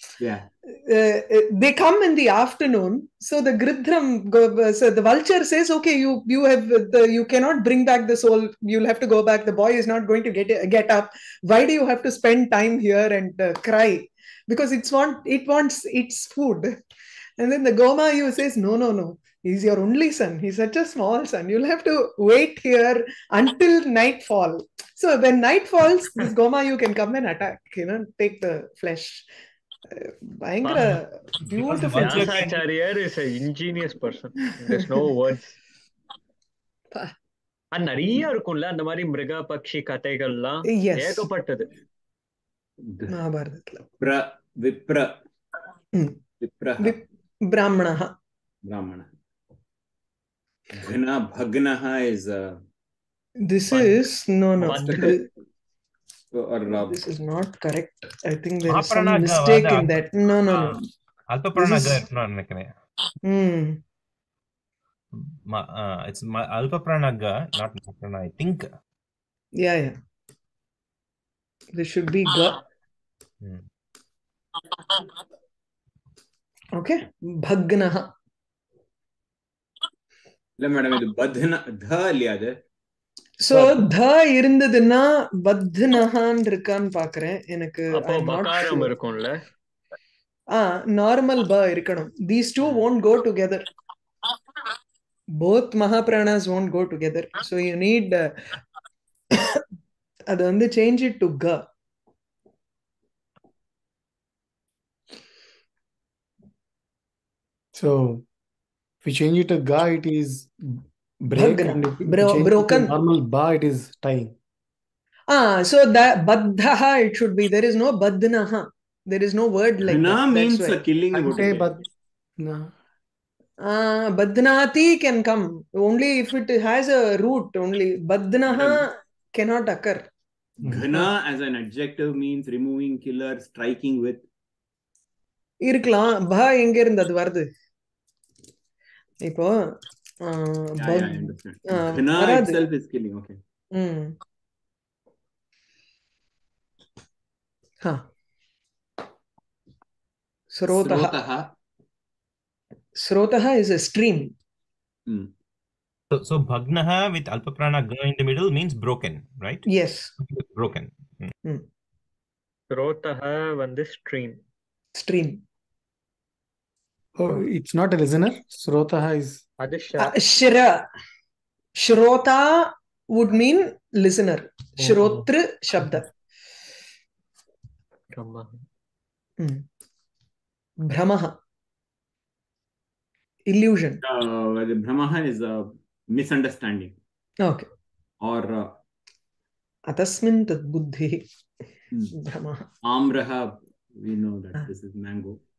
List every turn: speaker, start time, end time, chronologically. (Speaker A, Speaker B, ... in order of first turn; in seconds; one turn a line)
Speaker A: 0.2-0.5
Speaker B: 0.7-16.7
Speaker B: 17.4-29.2
Speaker B: 29.9-32.4
Speaker C: 30.6-35.5
Speaker D: 31.4-32.6
Speaker C: 37.7-41.7
Speaker B: 40.7-41.3
Speaker A: 42.8-43.1
Speaker B: 43.1-43.8
Speaker A: 44.0-45.2
Speaker A: 46.4-47.0
Speaker B: 46.8-48.1
Speaker A: 48.6-49.1
Speaker A: 50.7-52.6
Speaker B: 53.4-55.2
Speaker C: 54.6-55.2
Speaker A: 54.7-55.2
Speaker A: 56.3-57.0
Speaker B: 56.7-60.9
Speaker D: 58.6-60.8
Speaker D: 61.3-62.7
Speaker B: 61.5-62.0
Speaker B: 63.2-63.8
Speaker D: 65.1-68.7
Speaker B: 69.6-70.0
Speaker B: 71.7-72.6
Speaker B: 76.7-78.1
Speaker A: 80.6-82.6
Speaker B: 83.4-88.9
Speaker C: 87.9-89.4
Speaker B: 90.5-93.7
Speaker B: 95.3-98.3
Speaker B: 99.3-99.6
Speaker B: 100.3-101.6
Speaker E: 107.7-108.2
Speaker E: 109.0-114.3
Speaker B: 111.3-112.9
Speaker B: 115.3-120.8
Speaker A: 119.8-121.8
Speaker E: 121.1-121.8
Speaker E: 122.4-122.7
Speaker B: 123.6-130.1
Speaker A: 128.5-128.8
Speaker A: 130.6-134.2
Speaker B: 135.6-137.5
Speaker B: 139.2-142.6
Speaker A: 140.8-143.4
Speaker B: 143.7-144.2
Speaker B: 150.5-151.2
Speaker A: 150.7-151.5
Speaker B: 152.9-154.3
Speaker D: 156.1-159.7
Speaker B: 159.7-160.1
Speaker D: 160.2-161.3
Speaker C: 162.7-164.4
Speaker B: 164.9-165.4
Speaker E: 167.2-169.4
Speaker C: 169.6-170.1
Speaker B: 170.0-170.8
Speaker B: 171.8-176.1
Speaker C: 178.1-178.6
Speaker B: 179.4-179.6
Speaker B: 180.8-181.3
Speaker B: 183.5-184.0
Speaker A: 184.0-186.9
Speaker A: 188.2-188.8
Speaker B: 189.9-191.2
Speaker B: 192.1-192.7
Speaker A: 192.8-195.4